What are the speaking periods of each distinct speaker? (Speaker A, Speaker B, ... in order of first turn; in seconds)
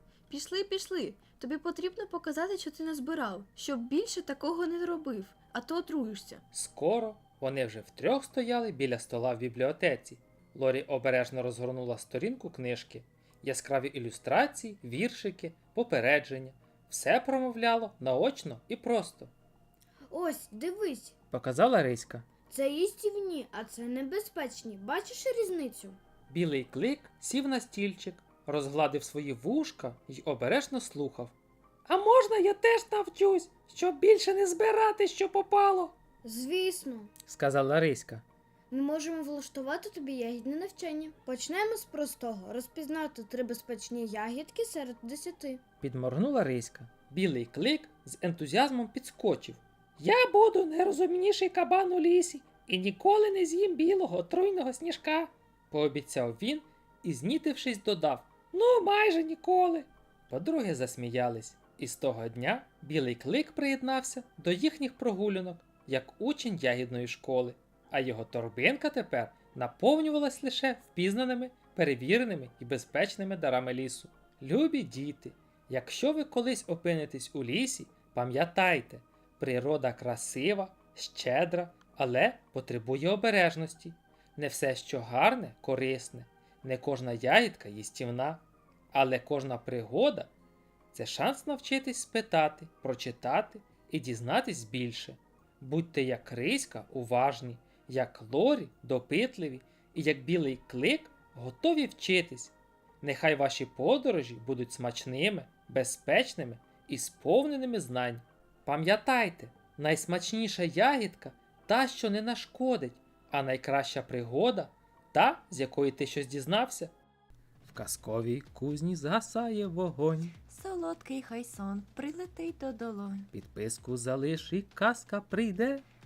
Speaker A: 0.3-6.4
Speaker B: 6.5-19.3, 21.3-22.2, 26.3-31.3, 31.9-35.9, 37.2-38.2, 45.8-90.3, 90.9-116.9, 117.6-120.3, 123.3-125.8
Speaker C: 20.1-21.1, 22.5-26.0, 36.2-37.1, 38.7-45.6
Speaker D: 120.4-123.3